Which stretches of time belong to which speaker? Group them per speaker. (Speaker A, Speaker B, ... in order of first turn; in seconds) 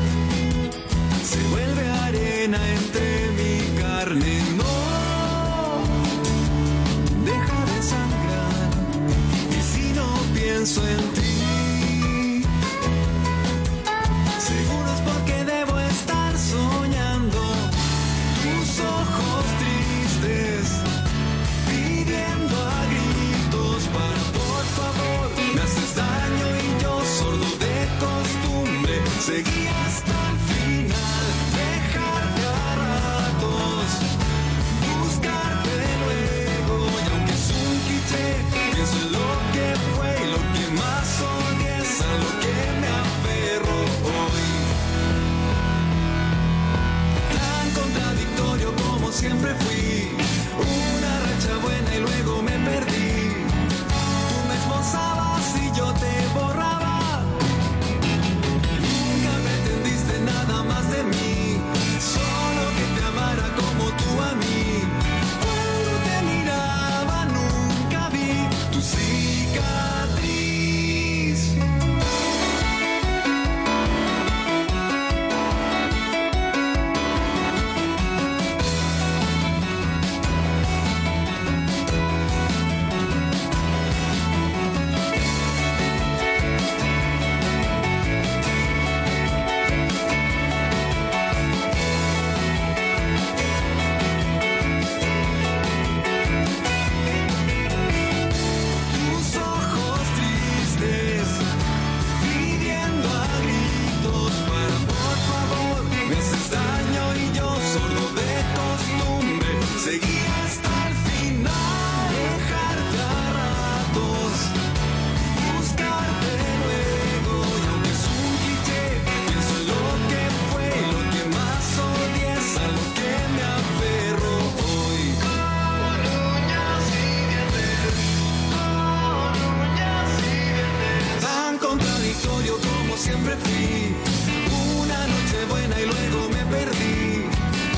Speaker A: 1.2-5.9, 7.1-8.9, 9.5-12.4, 14.4-17.7, 18.3-20.9, 21.6-34.0, 34.7-44.7, 47.3-53.5, 54.3-57.3, 58.8-71.5, 98.9-101.4, 102.2-114.5, 115.3-125.2, 125.9-127.8, 128.9-137.3